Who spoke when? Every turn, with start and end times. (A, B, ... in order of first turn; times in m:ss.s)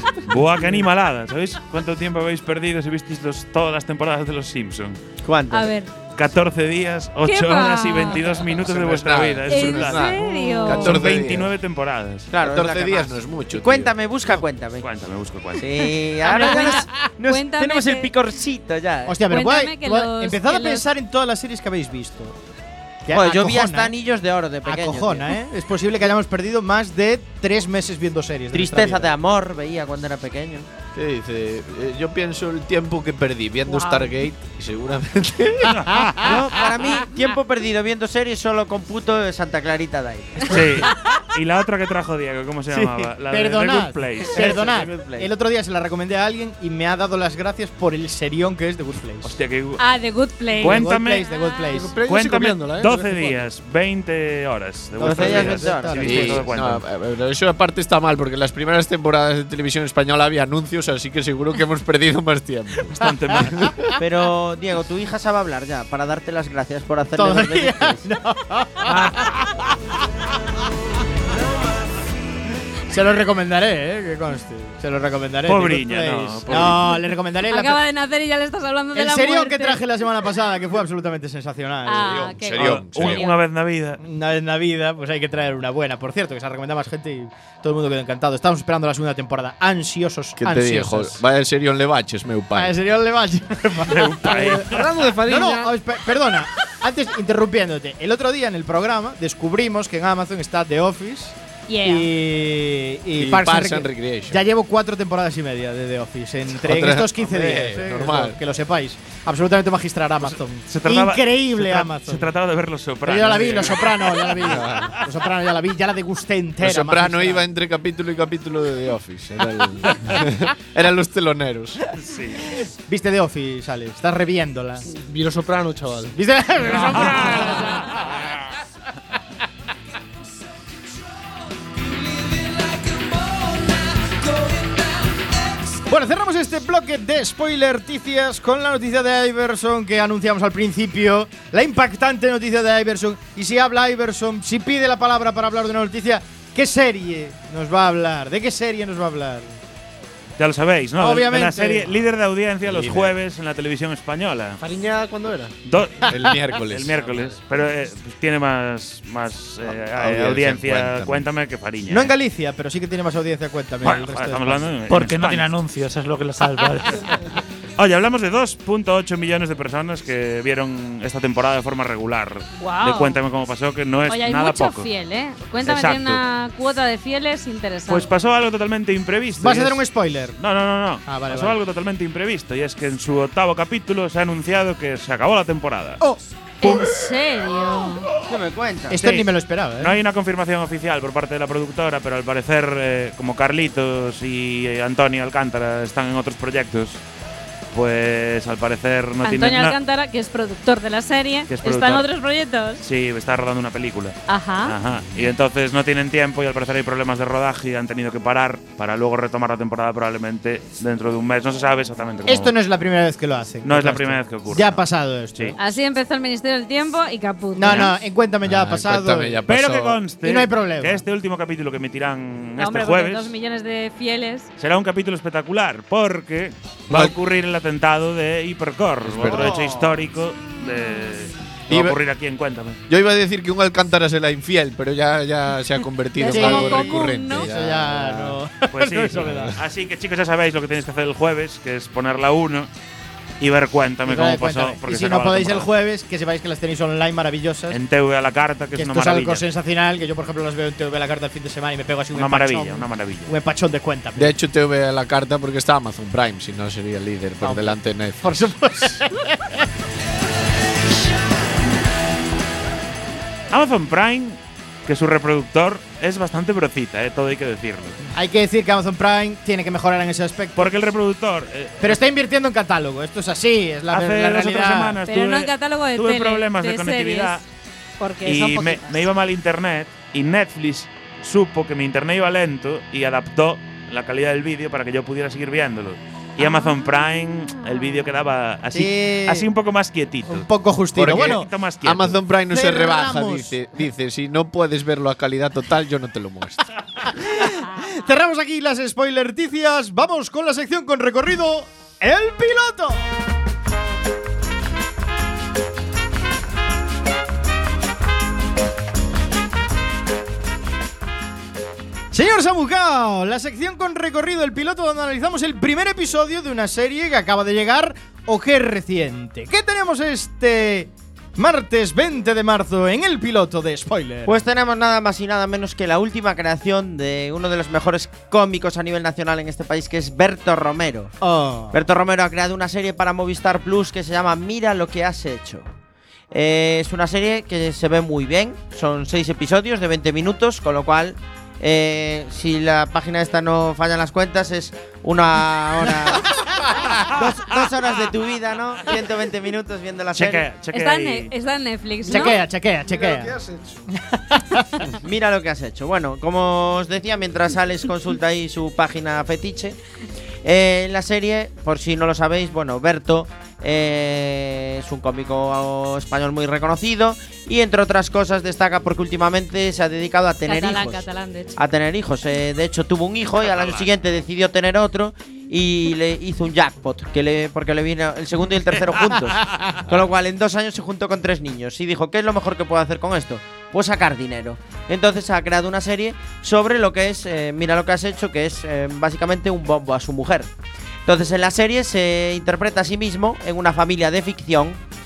0:00.2-0:05.0 A
0:05.2-0:05.7 B
0:05.5-0:05.9 C
0:06.2-0:12.3 A
0:07.2-0:08.2 C
0:08.2-0:11.5 D
0:09.5-0:11.0 C
0:12.3-0:14.8 B
0:12.4-0:14.0 D
0:14.8-0:15.9 A
0:15.6-0:19.2 B
0:16.2-0:18.1 C
0:16.4-0:17.1 E
0:19.1-0:22.4 E
0:19.3-0:20.9 C
0:23.0-0:24.0 E
0:23.1-0:25.3 B
0:24.6-0:29.1 E
0:28.5-0:30.7 B
0:30.9-0:35.9 D
0:35.9-0:36.3 E
0:36.2-0:40.6 B
0:40.4-0:41.2 E
0:40.5-0:44.6 A
0:42.7-0:49.3 E
0:44.3-0:45.3 B
0:49.2-0:49.8 A
0:49.8-0:51.6 C
0:50.6-0:51.3 A
0:50.6-0:52.0 E
0:51.7-0:53.4 F
0:52.0-0:56.8 A
0:55.0-0:56.4 B
0:55.0-0:56.2 E
0:56.0-1:03.9 D
1:02.9-1:03.7 A
1:04.0-1:08.0 B
1:07.2-1:09.6 E
1:12.9-1:17.8 E
1:15.5-1:16.9 A
1:16.5-1:19.8 C
1:19.0-1:22.3 E
1:21.9-1:23.3 C
1:22.0-1:23.3 D
1:22.5-1:24.0 A
1:24.0-1:31.2 E
1:30.4-1:32.8 D
1:32.5-1:34.6 E
1:33.9-1:34.9 A
1:34.3-1:35.8 F
1:35.2-1:52.3 E
1:41.7-1:42.1 C
1:43.2-1:44.4 D
1:46.6-1:48.4 D
1:50.7-1:55.0 A
1:53.0-1:57.4 E
1:54.4-1:54.9 D
1:56.6-2:01.8 D
2:02.0-2:02.4 A
2:02.9-2:04.8 E
2:04.9-2:06.2 F
2:06.2-2:07.9 E
2:06.8-2:07.8 A
2:15.9-2:29.6 E
2:30.4-2:34.6 A
2:31.0-2:31.9 E
2:32.6-2:33.1 D
2:34.6-2:35.5 F
2:35.7-2:42.1 A
2:36.1-2:37.2 D
2:39.6-2:41.3 D
2:41.9-2:44.8 E
2:43.8-2:45.5 A
2:44.9-2:47.2 G
2:47.8-2:54.9 A
2:52.6-2:53.2 C
2:54.1-2:58.1 C
2:55.6-2:56.2 A
2:57.9-2:59.8 A
2:59.4-3:00.4 E
3:00.4-3:06.0 A
3:01.1-3:01.6 E
3:06.6-3:08.1 C
3:08.3-3:09.2 B
3:08.9-3:09.9 E
3:09.8-3:17.0 A
3:17.7-3:19.8 A
3:19.2-3:22.8 C
3:21.5-3:22.1 A
3:22.8-3:32.5 A
3:24.3-3:24.7 C
3:32.3-3:35.6 E
3:33.6-3:34.8 A
3:35.6-3:38.0 C
3:37.6-3:39.4 E
3:38.4-3:40.0 D
3:39.5-3:43.3 A
3:40.2-3:41.0 E
3:42.6-3:44.5 C
3:44.6-3:52.8 A
3:46.9-3:47.1 D
3:49.0-3:49.6 D
3:49.3-3:49.6 E
3:51.7-3:52.0 D
3:52.9-3:58.4 D
3:56.2-3:57.5 C
3:56.3-3:59.5 E
3:58.7-4:02.7 A
3:59.1-3:59.5 D
4:03.4-4:05.7 A
4:04.1-4:07.8 E
4:07.7-4:09.4 A
4:08.8-4:14.4 E
4:12.1-4:13.3 A
4:14.2-4:19.0 D
4:17.4-4:19.4 E
4:23.5-4:28.1 A
4:28.2-4:30.7 E
4:30.6-4:32.0 A
4:31.8-4:35.0 E
4:33.9-4:37.4 A
4:35.1-4:37.4 C
4:38.0-4:39.1 C
4:38.2-4:52.2 A
4:48.7-4:49.5 E
4:50.3-4:51.5 E
4:51.0-4:56.6 D
4:52.5-4:53.5 E
4:57.1-5:03.0 E
5:12.1-5:24.4 E
5:24.3-5:31.2 B
5:31.2-5:31.8 E
5:31.7-5:35.7 B
5:36.3-5:50.5 B
5:50.1-5:51.3 A
5:50.7-5:52.4 C
5:52.1-5:52.4 F
5:52.1-5:53.3 E
5:52.9-5:53.8 F
5:54.3-5:54.9 E
5:55.0-5:59.8 B
6:00.4-6:11.0 B
6:10.5-6:11.6 C
6:11.6-6:30.5 B
6:13.4-6:13.9 A
6:31.1-6:34.8 B